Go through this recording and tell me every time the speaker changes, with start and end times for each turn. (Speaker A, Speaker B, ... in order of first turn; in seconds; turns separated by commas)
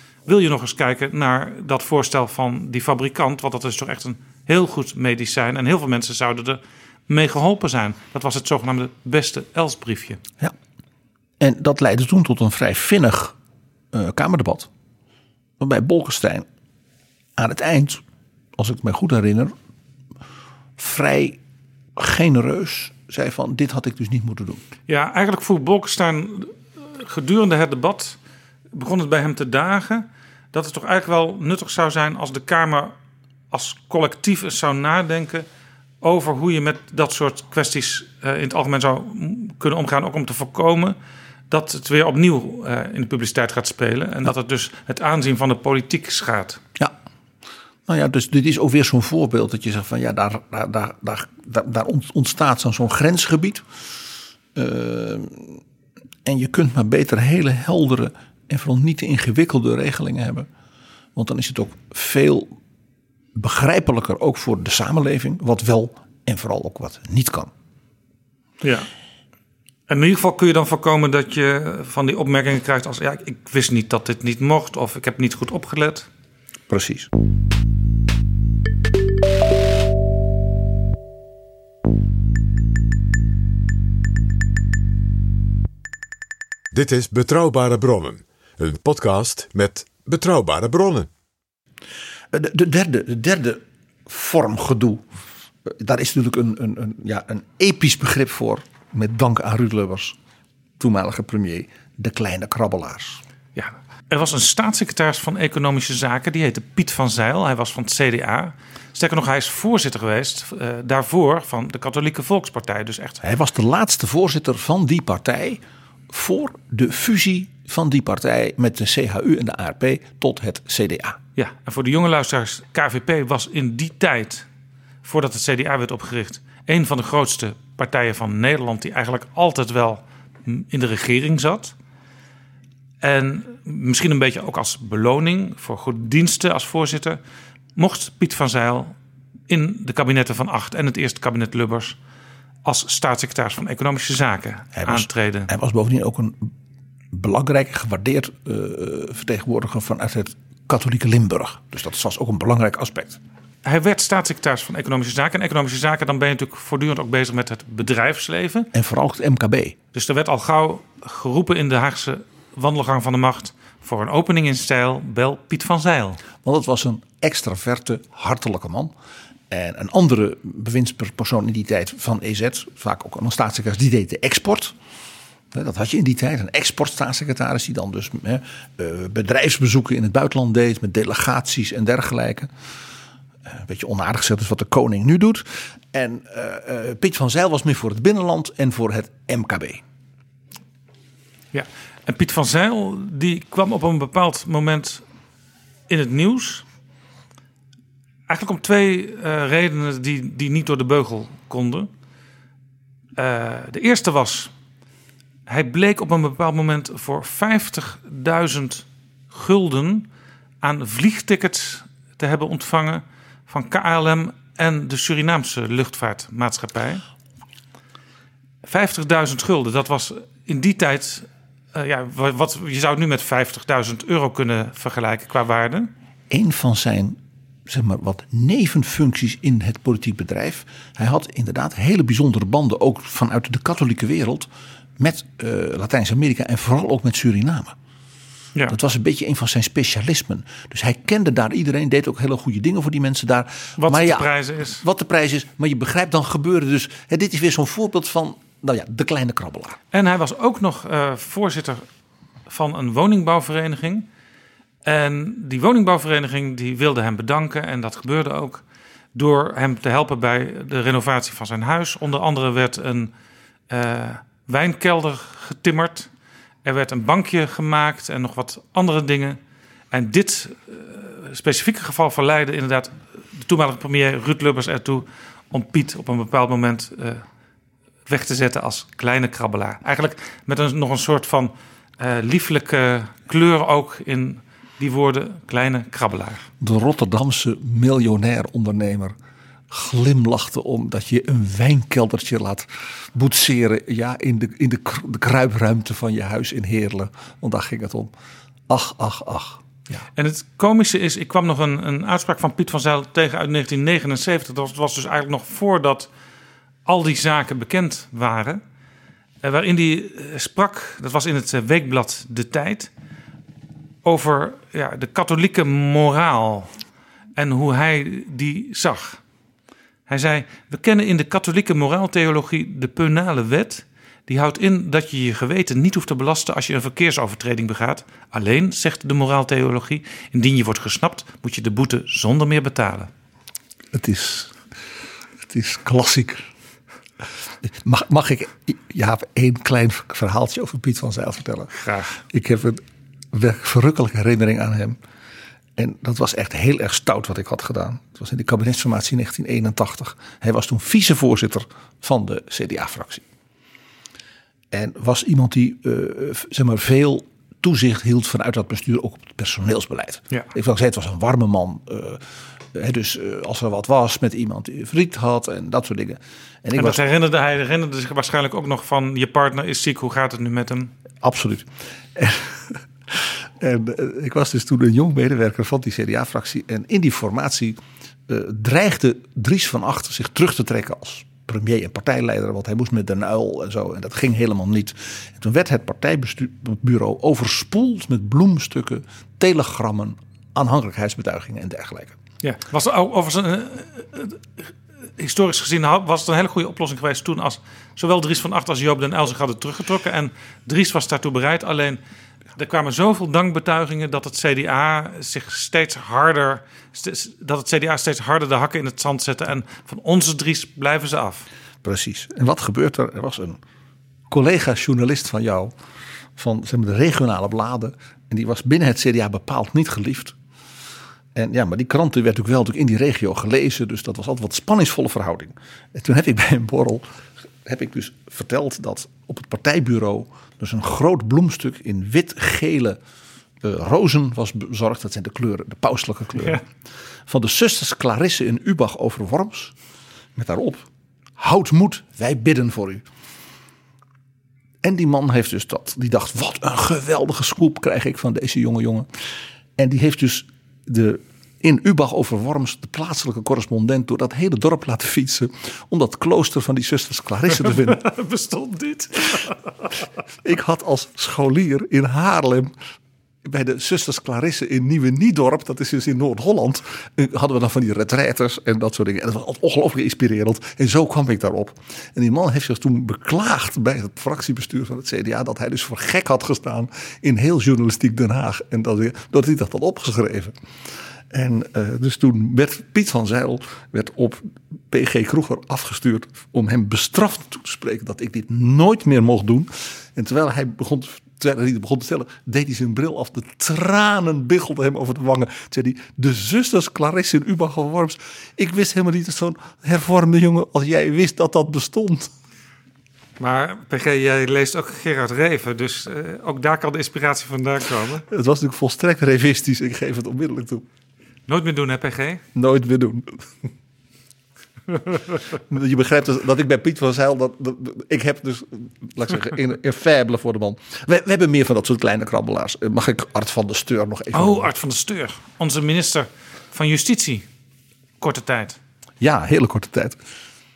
Speaker A: 0.3-10.2, Speaker B: 11.4-13.4, Speaker B: 13.9-14.7, Speaker B: 15.6-16.5, Speaker B: 17.4-18.0, Speaker B: 18.6-19.5, Speaker B: 20.8-21.4, Speaker B: 22.0-24.6, Speaker A: 24.9-28.2, Speaker A: 28.7-32.9, Speaker A: 33.5-35.5, Speaker A: 36.0-41.0, Speaker A: 41.5-46.6, Speaker B: 47.9-53.6, Speaker B: 54.5-55.6, Speaker B: 56.2-60.5, Speaker B: 61.1-62.5, Speaker B: 63.4-67.5, Speaker A: 68.6-68.9, Speaker A: 69.9-76.1, Speaker B: 76.7-77.1, Speaker C: 86.7-91.1, Speaker B: 92.3-95.1, Speaker B: 95.7-100.2, Speaker B: 100.8-103.2, Speaker A: 103.5-113.2, Speaker B: 113.2-121.2, Speaker A: 121.4-124.5, Speaker A: 125.0-131.8, Speaker A: 133.0-137.2, Speaker A: 137.8-138.9, Speaker A: 139.5-142.0, Speaker A: 142.7-145.5, Speaker B: 144.8-146.5, Speaker B: 147.1-153.2, Speaker A: 153.6-158.7, Speaker B: 158.7-159.8, Speaker A: 159.9-166.2, Speaker B: 166.4-168.9, Speaker B: 169.5-174.8, Speaker B: 175.5-182.5, Speaker B: 183.5-189.8, Speaker A: 191.5-195.1, Speaker A: 195.9-196.7, Speaker A: 198.3-201.9, Speaker A: 203.2-204.5, Speaker A: 205.5-210.1, Speaker A: 210.6-217.0, Speaker A: 218.7-225.9, Speaker B: 226.3-237.8, Speaker B: 238.7-249.8, Speaker A: 243.8-244.8, Speaker A: 249.9-251.8, Speaker A: 252.5-254.1, Speaker A: 254.8-258.6, Speaker A: 259.1-263.1, Speaker A: 263.7-266.1, Speaker A: 266.6-269.4, Speaker A: 269.9-277.2, Speaker A: 278.1-286.4, Speaker B: 286.6-289.1, Speaker B: 289.7-298.1, Speaker B: 298.7-300.0, Speaker A: 300.2-306.1, Speaker A: 306.9-308.6, Speaker A: 309.4-312.9, Speaker A: 314.1-316.7, Speaker A: 317.4-319.2, Speaker A: 320.1-333.1, Speaker B: 333.9-334.6, Speaker B: 335.4-336.4, Speaker B: 337.6-345.0, Speaker A: 341.8-342.2, Speaker B: 345.8-353.2, Speaker B: 354.7-367.0, Speaker A: 366.8-370.9, Speaker B: 371.2-392.2, Speaker A: 392.4-402.0, Speaker A: 402.6-411.5, Speaker B: 411.8-413.6, Speaker B: 414.3-415.7, Speaker B: 416.4-420.4, Speaker B: 421.4-427.1, Speaker B: 427.6-433.0, Speaker B: 433.6-436.7, Speaker B: 437.3-439.7, Speaker B: 440.4-440.9, Speaker B: 441.4-443.1, Speaker B: 444.8-449.1, Speaker B: 449.8-458.1, Speaker A: 457.6-459.7, Speaker B: 460.4-462.7, Speaker B: 463.4-480.6, Speaker B: 481.3-502.3, Speaker A: 503.4-508.2, Speaker B: 508.3-510.9, Speaker A: 511.5-512.4, Speaker B: 512.5-513.7, Speaker B: 515.7-524.7, Speaker A: 524.3-527.5, Speaker A: 528.2-528.8, Speaker B: 529.2-530.2